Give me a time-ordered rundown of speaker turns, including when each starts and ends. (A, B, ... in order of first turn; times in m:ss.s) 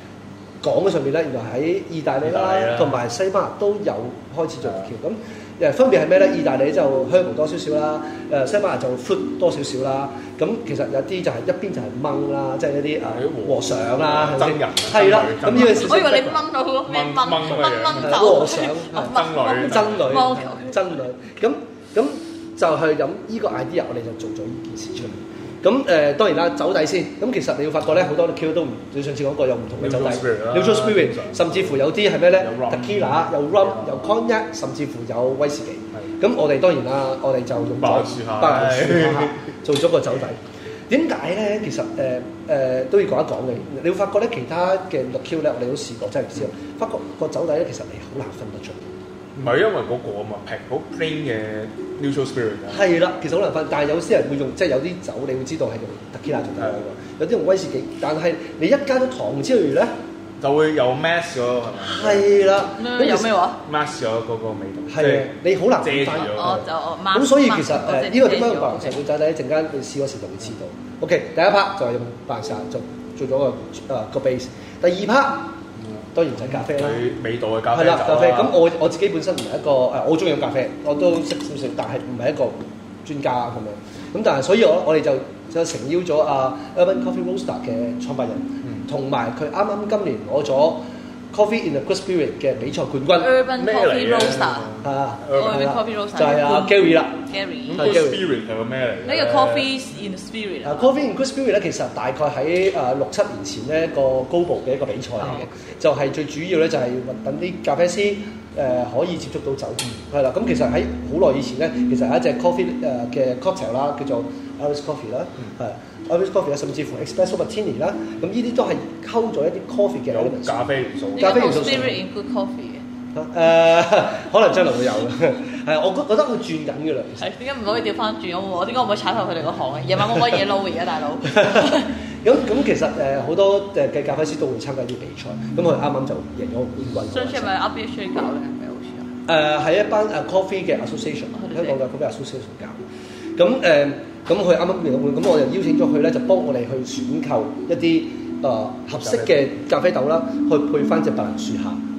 0:00.6-0:16.4 A
0:02.2-0:03.0 B
0:13.1-0:16.0 B
0:15.6-0:20.9 C
0:16.9-0:20.2 B
0:17.5-0:48.9 A
0:29.8-0:31.8 B
0:32.4-0:34.1 B
0:37.8-0:39.4 B
0:49.4-0:52.9 B
0:52.7-0:59.9 A
1:00.4-1:02.3 B
1:01.9-1:03.3 A
1:02.8-1:03.6 C
1:03.6-1:06.6 B
1:04.9-1:15.6 A
1:06.2-1:09.0 C
1:15.8-1:18.6 B
1:16.1-1:17.0 A
1:17.7-1:33.4 A
1:33.2-1:34.7 C
1:33.6-1:35.6 B
1:34.8-1:38.2 A
1:35.3-1:38.0 C
1:37.7-1:39.7 B
1:39.0-1:40.9 C
1:40.6-2:00.6 A
1:45.2-1:45.4 C
2:00.1-2:01.9 B
2:01.2-2:02.0 A
2:01.2-2:02.8 C
2:03.1-2:07.3 A
2:07.2-2:12.0 C
2:11.4-2:17.5 A
2:17.1-2:19.1 C
2:19.3-2:22.8 A
2:21.4-2:21.8 C
2:23.4-2:31.8 A
2:29.0-2:29.4 B